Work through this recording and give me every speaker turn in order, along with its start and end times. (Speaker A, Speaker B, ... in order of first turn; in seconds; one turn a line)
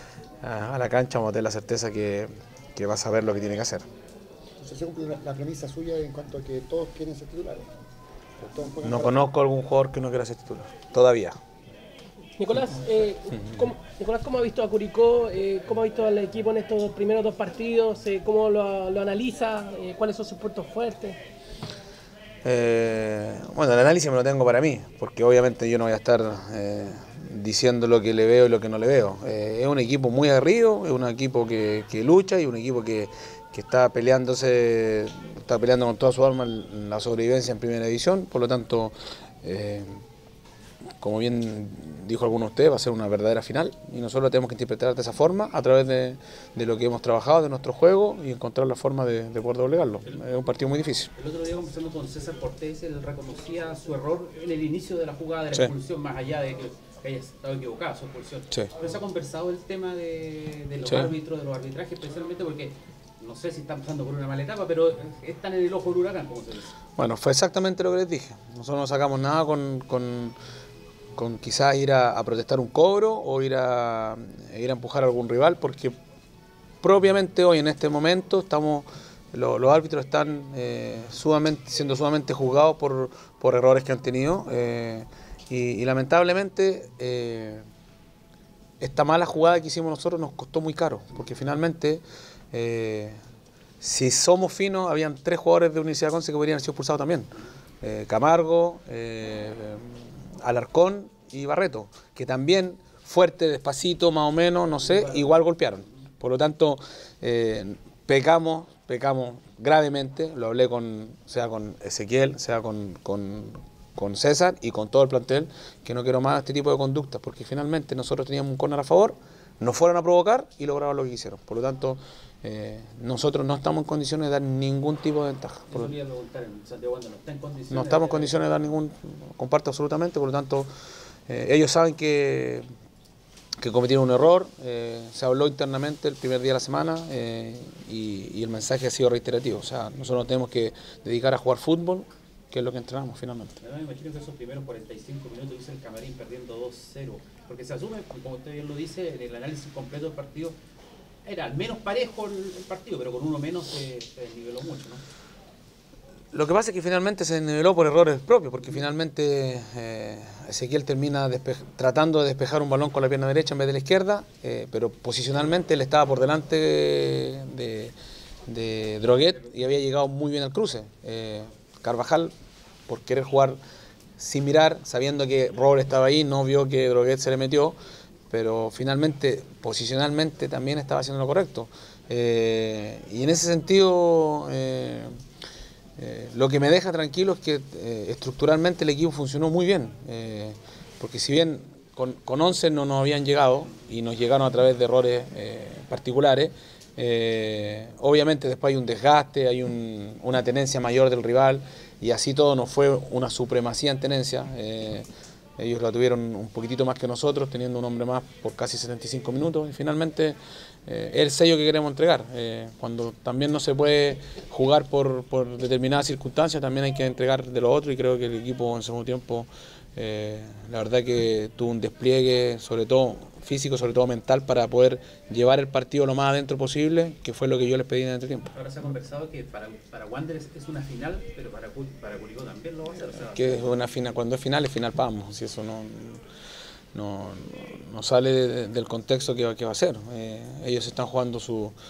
Speaker A: 0.4-3.8
Speaker B: 4.6-7.7
Speaker B: 8.4-9.3
Speaker A: 8.8-11.4
Speaker C: 12.4-21.2
Speaker A: 22.4-40.0
Speaker A: 41.0-51.1
Speaker D: 51.1-66.7
Speaker A: 60.9-61.1
Speaker A: 67.0-70.3
Speaker A: 71.2-75.9
Speaker A: 76.8-87.6
Speaker A: 88.8-93.2
Speaker A: 93.8-97.3
Speaker A: 97.8-125.9
Speaker D: 104.8-105.3
Speaker D: 125.7-128.5
Speaker A: 127.7-130.7
Speaker A: 131.3-132.6
Speaker A: 133.6-143.6
Speaker D: 143.6-150.5
Speaker D: 151.2-155.0
Speaker A: 156.3-167.9
Speaker A: 168.5-172.3
Speaker A: 172.9-173.6
Speaker A: 174.2-177.8
Speaker A: 178.3-185.1
Speaker A: 186.0-205.1
Speaker A: 205.6-228.5
Speaker D: 228.5-233.8
Speaker A: 233.3-236.2
Speaker A: 236.9-241.7